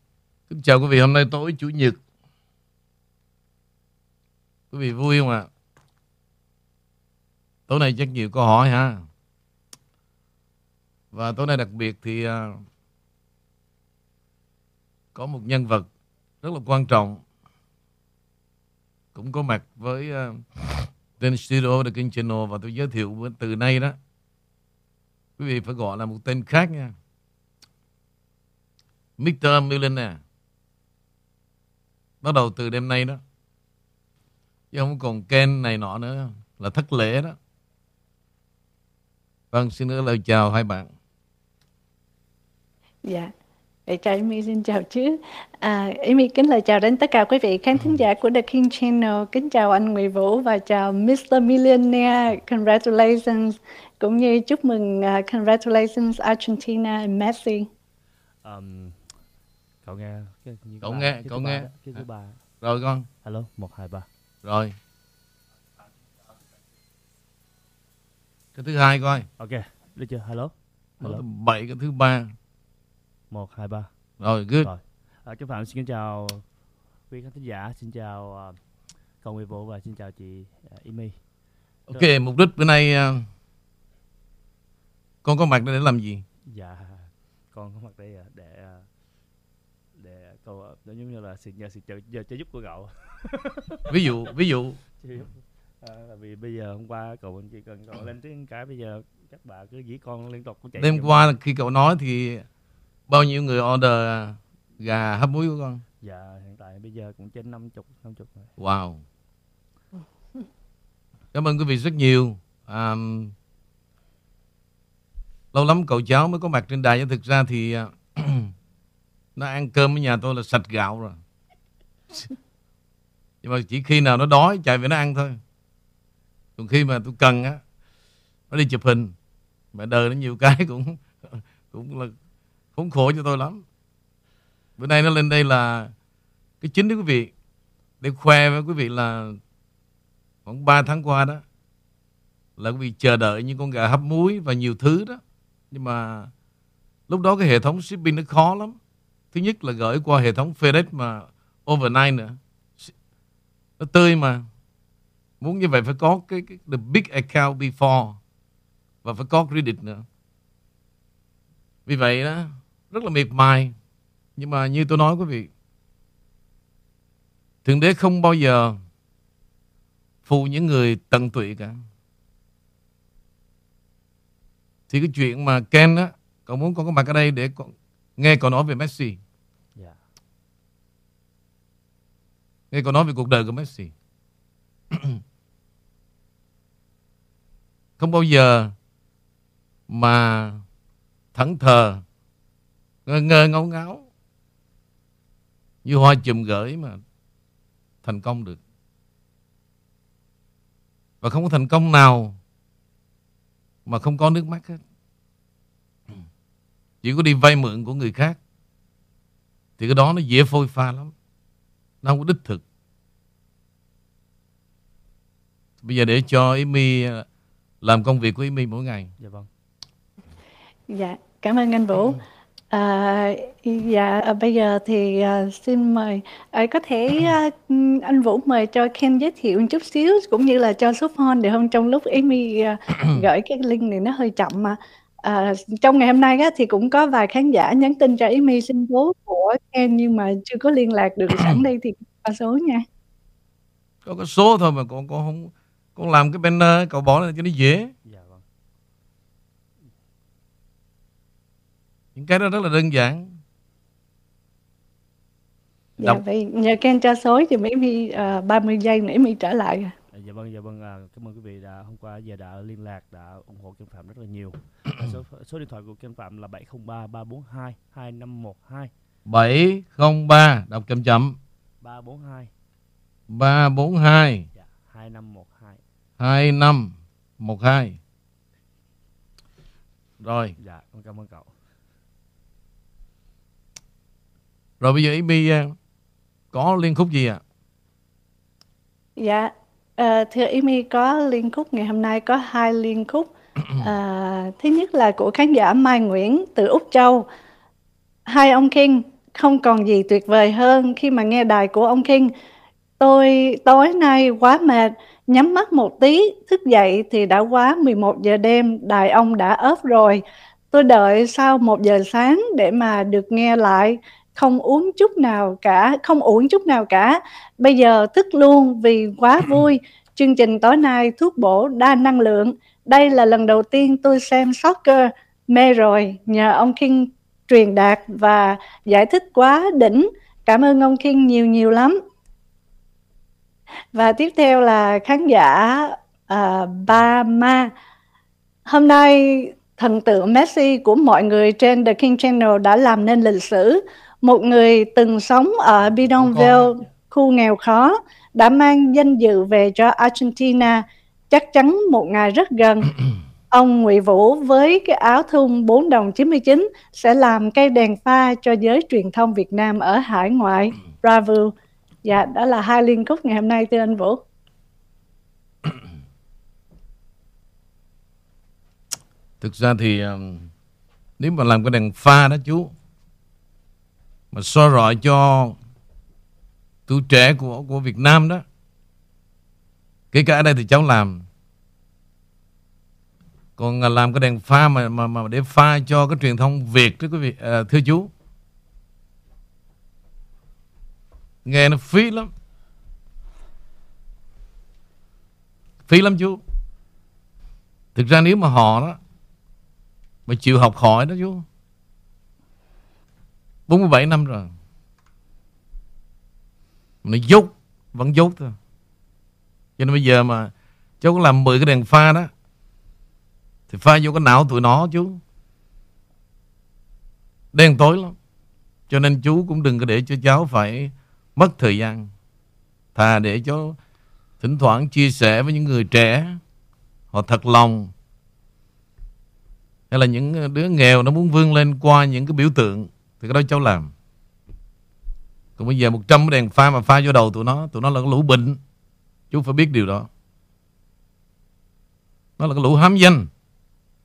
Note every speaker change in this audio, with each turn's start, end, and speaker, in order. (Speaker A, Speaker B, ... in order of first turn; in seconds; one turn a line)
Speaker A: 0.5-2.0
Speaker A: 4.7-5.5
Speaker A: 7.7-9.0
Speaker A: 11.1-12.6
Speaker A: 15.2-15.9
Speaker A: 16.4-17.2
Speaker A: 19.1-24.0
Speaker A: 25.4-26.9
Speaker A: 29.2-30.2
Speaker A: 32.2-33.2
Speaker A: 34.7-37.4
Speaker A: 39.5-40.9
Speaker B: 43.1-43.3
Speaker B: 43.9-57.7
Speaker C: 58.4-59.0
Speaker C: 59.9-62.4
Speaker A: 60.8-62.0
Speaker A: 62.6-63.1
Speaker C: 63.2-64.1
Speaker A: 64.4-64.8
Speaker A: 68.5-69.3
Speaker C: 69.4-71.2
Speaker A: 71.0-72.3
Speaker C: 73.3-73.9
Speaker A: 74.2-74.7
Speaker C: 74.6-76.5
Speaker C: 77.1-78.6
Speaker C: 79.2-81.2
Speaker A: 81.9-83.2
Speaker A: 85.2-86.2
Speaker C: 86.5-88.9
Speaker C: 90.0-93.9
Speaker A: 93.9-94.8
Speaker C: 95.0-101.3
Speaker A: 100.8-102.5
Speaker A: 103.1-105.8
Speaker C: 106.0-108.5
Speaker A: 108.6-109.0
Speaker A: 111.3-113.3
Speaker A: 115.5-118.5
Speaker A: 119.4-121.2
Speaker A: 123.4-125.4
Speaker A: 126.6-127.6
Speaker A: 128.5-129.1
Speaker A: 129.7-132.2
Speaker A: 132.8-133.6
Speaker A: 134.8-135.9
Speaker A: 136.6-137.3
Speaker A: 138.0-139.4
Speaker A: 140.5-141.4
Speaker A: 142.6-146.3
Speaker A: 147.1-148.8
Speaker A: 149.3-152.9
Speaker A: 153.8-154.4
Speaker A: 155.4-158.2
Speaker A: 159.0-160.1
Speaker A: 161.9-163.7
Speaker A: 164.4-165.5
Speaker A: 167.7-168.8
Speaker A: 170.3-171.8
Speaker A: 174.9-179.2
Speaker A: 182.7-183.9
Speaker A: 184.9-185.2
Speaker A: 188.0-188.7
Speaker A: 189.9-190.6
Speaker A: 191.3-192.0
Speaker A: 193.1-194.1
Speaker A: 195.8-197.0
Speaker A: 198.0-198.6
Speaker A: 201.2-202.4
Speaker A: 203.9-204.8
Speaker A: 207.0-208.4
Speaker A: 209.8-211.1
Speaker A: 212.0-212.6
Speaker A: 215.8-217.3
Speaker A: 217.8-219.1
Speaker C: 219.2-219.5
Speaker B: 220.9-222.2
Speaker B: 222.7-242.8
Speaker A: 244.1-247.9
Speaker C: 248.1-248.4
Speaker A: 252.2-253.3
Speaker B: 256.0-259.9
Speaker C: 260.1-268.9
Speaker A: 269.3-271.4
Speaker C: 271.8-272.5
Speaker A: 273.3-274.5
Speaker C: 274.6-275.8
Speaker A: 276.2-278.0
Speaker A: 280.2-280.6
Speaker C: 280.6-281.5
Speaker A: 284.8-285.8
Speaker A: 286.5-287.4
Speaker B: 289.2-297.3
Speaker B: 298.3-302.3
Speaker B: 303.0-332.0
Speaker B: 333.9-337.7
Speaker B: 338.7-352.9
Speaker A: 346.3-346.6
Speaker B: 353.5-361.5
Speaker B: 362.1-364.2
Speaker A: 369.4-370.5
Speaker A: 371.2-372.7
Speaker A: 374.3-375.6
Speaker A: 376.9-378.4
Speaker A: 380.1-381.2
Speaker A: 383.6-388.1
Speaker A: 391.4-392.3
Speaker A: 395.9-396.4
Speaker A: 397.9-399.0
Speaker A: 400.3-401.4
Speaker A: 403.7-404.5
Speaker A: 407.0-408.6
Speaker A: 409.8-412.3
Speaker A: 413.7-415.2
Speaker A: 417.5-418.1
Speaker A: 418.9-422.1
Speaker A: 422.9-423.8
Speaker A: 424.4-426.4
Speaker A: 427.1-427.9
Speaker A: 429.9-433.9
Speaker A: 435.6-438.6
Speaker A: 439.3-440.1
Speaker A: 442.4-443.3